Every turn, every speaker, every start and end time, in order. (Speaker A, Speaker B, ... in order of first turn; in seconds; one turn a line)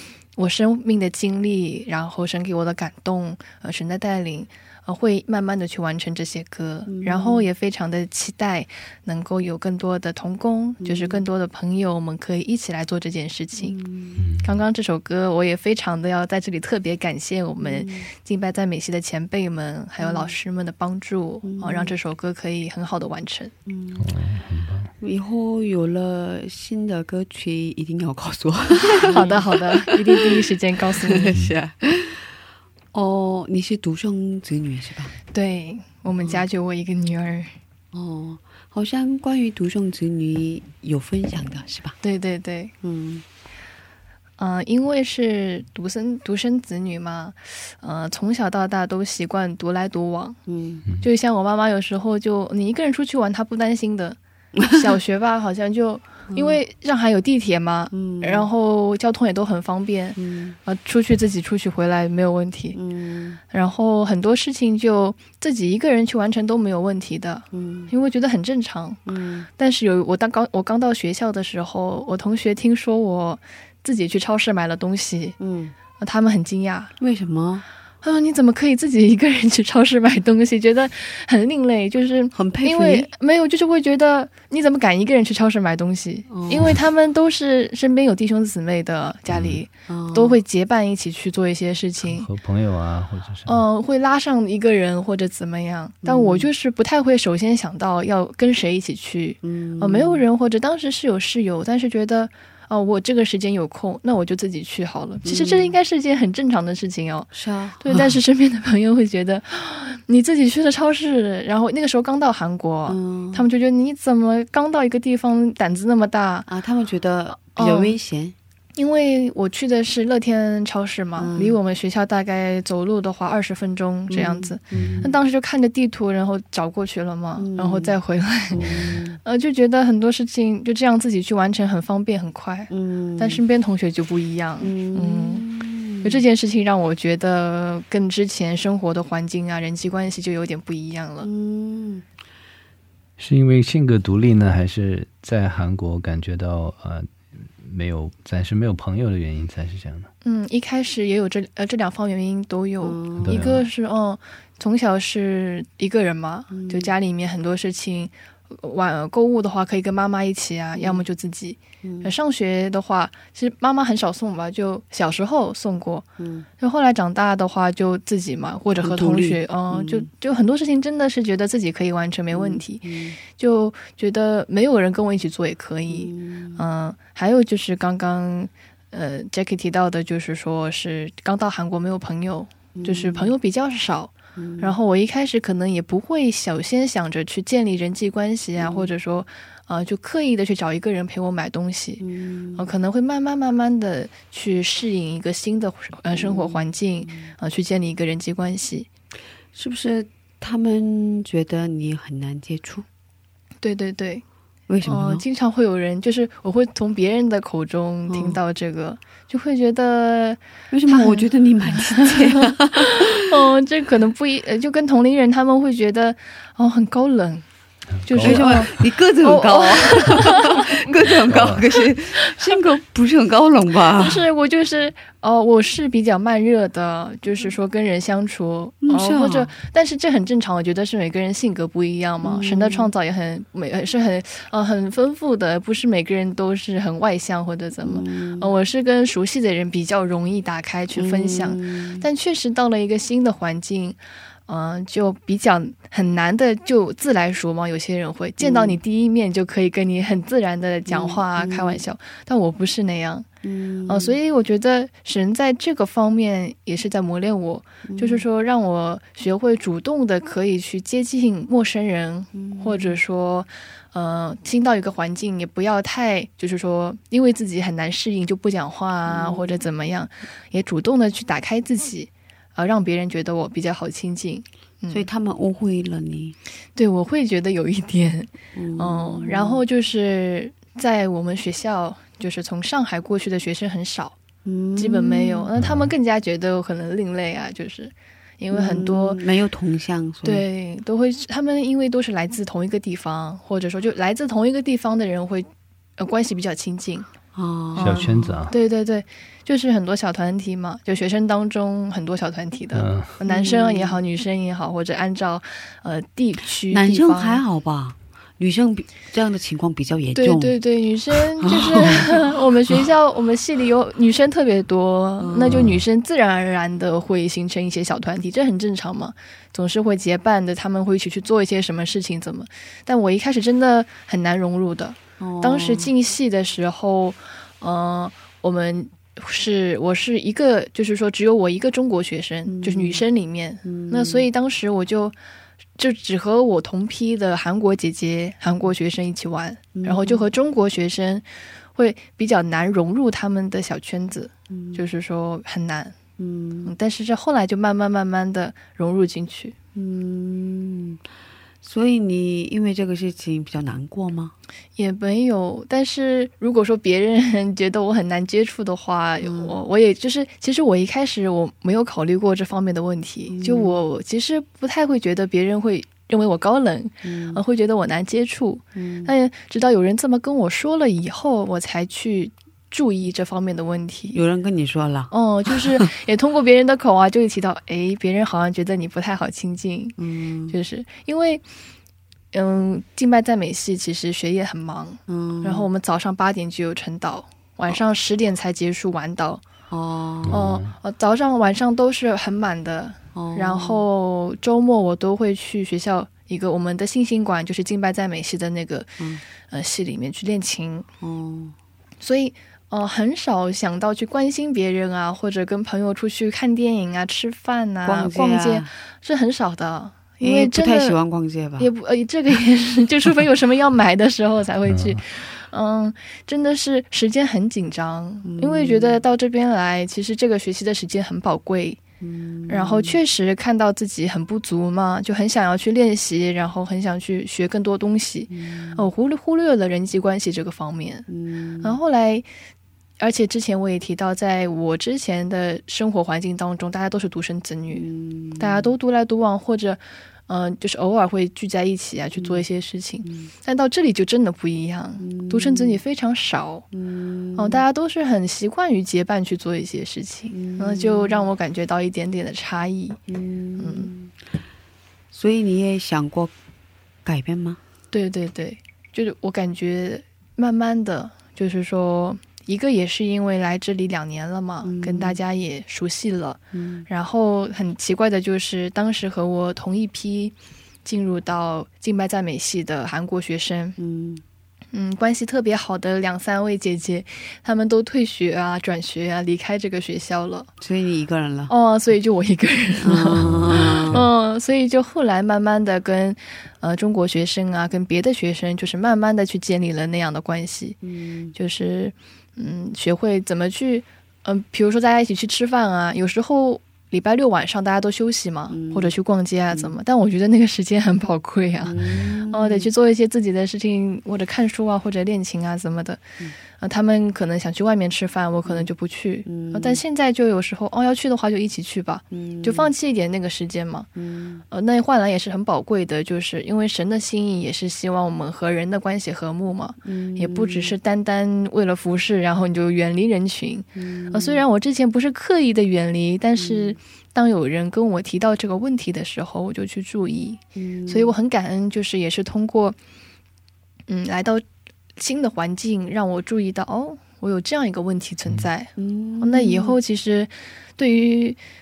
Speaker A: 0.3-13.8
Speaker B: 6.9-7.5
Speaker B: 10.8-11.2
Speaker B: 13.6-14.2
Speaker C: 14.2-14.6
Speaker A: 14.4-23.5
Speaker B: 17.6-18.1
Speaker B: 20.0-20.4
Speaker B: 21.4-21.9
Speaker B: 23.6-24.1
Speaker C: 24.0-24.9
Speaker B: 25.0-30.5
Speaker A: 28.8-31.3
Speaker B: 31.1-32.3
Speaker B: 32.9-35.1
Speaker A: 35.3-37.5
Speaker B: 37.9-42.0
Speaker A: 42.0-42.7
Speaker B: 42.8-43.2
Speaker A: 44.4-50.4
Speaker B: 50.5-50.8
Speaker A: 51.0-54.2
Speaker B: 54.6-54.9
Speaker A: 54.7-62.8
Speaker B: 56.3-56.6
Speaker B: 57.9-58.5
Speaker B: 60.1-60.6
Speaker B: 62.7-63.4
Speaker A: 63.5-69.0
Speaker B: 67.5-67.9
Speaker B: 69.0-69.5
Speaker A: 69.6-75.4
Speaker B: 75.4-75.7
Speaker A: 76.0-76.9
Speaker B: 77.0-77.6
Speaker A: 78.0-92.3
Speaker B: 82.3-83.1
Speaker B: 86.3-86.8
Speaker C: 89.3-89.6
Speaker B: 89.9-90.4
Speaker C: 92.0-93.6
Speaker A: 93.5-116.5
Speaker B: 96.0-96.5
Speaker B: 99.4-100.2
Speaker B: 105.2-105.8
Speaker B: 107.3-108.2
Speaker B: 112.9-113.5
Speaker B: 116.5-118.3
Speaker A: 117.5-118.0
Speaker A: 118.8-128.6
Speaker B: 121.2-121.6
Speaker B: 124.1-125.2
Speaker C: 124.7-125.1
Speaker B: 127.4-129.2
Speaker C: 128.5-128.9
Speaker A: 129.2-135.4
Speaker B: 132.7-133.4
Speaker B: 134.6-136.2
Speaker A: 136.0-141.3
Speaker B: 141.2-142.0
Speaker C: 143.2-150.1
Speaker A: 150.2-166.1
Speaker B: 152.8-153.5
Speaker C: 153.2-153.6
Speaker B: 156.5-156.9
Speaker B: 160.8-161.0
Speaker B: 161.8-162.1
Speaker B: 166.2-166.4
Speaker A: 166.6-192.0
Speaker B: 168.8-170.1
Speaker B: 172.3-173.2
Speaker B: 175.9-176.6
Speaker B: 182.7-183.3
Speaker B: 184.3-184.8
Speaker B: 188.6-188.9
Speaker B: 192.0-192.7
Speaker A: 192.6-198.9
Speaker B: 196.1-197.3
Speaker B: 199.5-202.8
Speaker A: 203.6-204.2
Speaker B: 204.7-205.2
Speaker A: 204.8-211.2
Speaker B: 208.1-208.4
Speaker B: 210.7-213.2
Speaker A: 212.0-217.4
Speaker C: 218.0-218.6
Speaker A: 218.0-220.6
Speaker B: 218.2-224.2
Speaker C: 221.2-221.6
Speaker A: 224.0-253.3
Speaker B: 228.8-229.5
Speaker B: 232.2-232.9
Speaker B: 237.8-238.5
Speaker B: 240.9-242.1
Speaker B: 248.4-248.8
Speaker B: 250.9-251.8
Speaker B: 253.4-254.2
Speaker A: 253.9-275.1
Speaker B: 257.8-258.2
Speaker B: 262.3-263.0
Speaker B: 269.1-269.6
Speaker B: 274.9-276.4
Speaker A: 276.8-284.1
Speaker B: 278.5-279.6
Speaker B: 284.4-285.5
Speaker A: 284.8-289.2
Speaker C: 285.6-285.9
Speaker B: 288.5-290.4
Speaker A: 290.2-297.1
Speaker B: 297.3-298.5
Speaker A: 297.7-307.4
Speaker C: 297.8-298.5
Speaker C: 302.7-303.1
Speaker B: 303.2-304.0
Speaker B: 306.7-310.6
Speaker A: 310.1-335.1
Speaker B: 311.1-312.2
Speaker B: 315.2-315.7
Speaker C: 315.5-315.8
Speaker B: 325.2-325.9
Speaker B: 332.4-333.1
Speaker B: 333.6-334.3
Speaker A: 335.8-345.9
Speaker B: 339.7-340.3
Speaker B: 344.5-344.9
Speaker B: 346.2-346.7
Speaker A: 346.6-349.5
Speaker B: 349.7-351.0
Speaker B: 351.6-354.3
Speaker A: 354.8-374.2
Speaker B: 359.2-359.6
Speaker B: 363.3-363.8
Speaker B: 367.0-367.4
Speaker B: 368.8-369.1
Speaker B: 374.1-375.8
Speaker A: 375.1-380.0
Speaker B: 380.0-380.6
Speaker A: 380.5-381.4
Speaker A: 382.3-389.4
Speaker B: 385.1-385.7
Speaker B: 389.7-390.4
Speaker C: 390.2-390.7
Speaker A: 390.3-398.9
Speaker B: 393.1-393.9
Speaker A: 399.5-400.9
Speaker B: 401.0-401.5
Speaker A: 402.0-411.0
Speaker B: 407.8-408.7
Speaker B: 410.2-411.7
Speaker A: 411.6-421.8
Speaker C: 414.6-415.0
Speaker B: 418.2-419.0
Speaker B: 422.0-423.0
Speaker A: 422.5-431.1
Speaker B: 428.3-428.9
Speaker B: 431.1-431.8
Speaker A: 431.6-432.3
Speaker A: 433.0-437.9
Speaker B: 437.7-438.8
Speaker A: 438.4-446.7
Speaker B: 442.1-442.4
Speaker B: 443.0-443.3
Speaker B: 445.0-445.8
Speaker B: 446.7-447.6
Speaker A: 447.4-453.0
Speaker B: 450.3-451.3
Speaker B: 453.1-454.1
Speaker A: 453.6-453.9
Speaker B: 455.1-456.3
Speaker B: 457.0-457.6
Speaker A: 457.9-470.3
Speaker B: 464.6-465.2
Speaker B: 466.5-466.9
Speaker A: 470.8-473.8
Speaker B: 473.8-474.2
Speaker A: 474.7-480.5
Speaker B: 480.6-481.5
Speaker A: 481.5-490.8
Speaker B: 482.8-484.0
Speaker B: 490.8-491.3
Speaker A: 491.3-501.7
Speaker B: 498.5-498.9
Speaker B: 499.5-499.8
Speaker B: 501.6-502.7
Speaker A: 502.3-506.0
Speaker A: 506.6-513.9
Speaker B: 509.2-509.8
Speaker B: 512.1-512.7
Speaker B: 514.0-514.4
Speaker A: 514.5-532.8
Speaker B: 519.8-520.8
Speaker B: 523.7-524.5
Speaker B: 526.4-526.8
Speaker B: 530.5-531.1
Speaker A: 533.9-534.4
Speaker A: 535.0-541.4
Speaker B: 538.8-539.8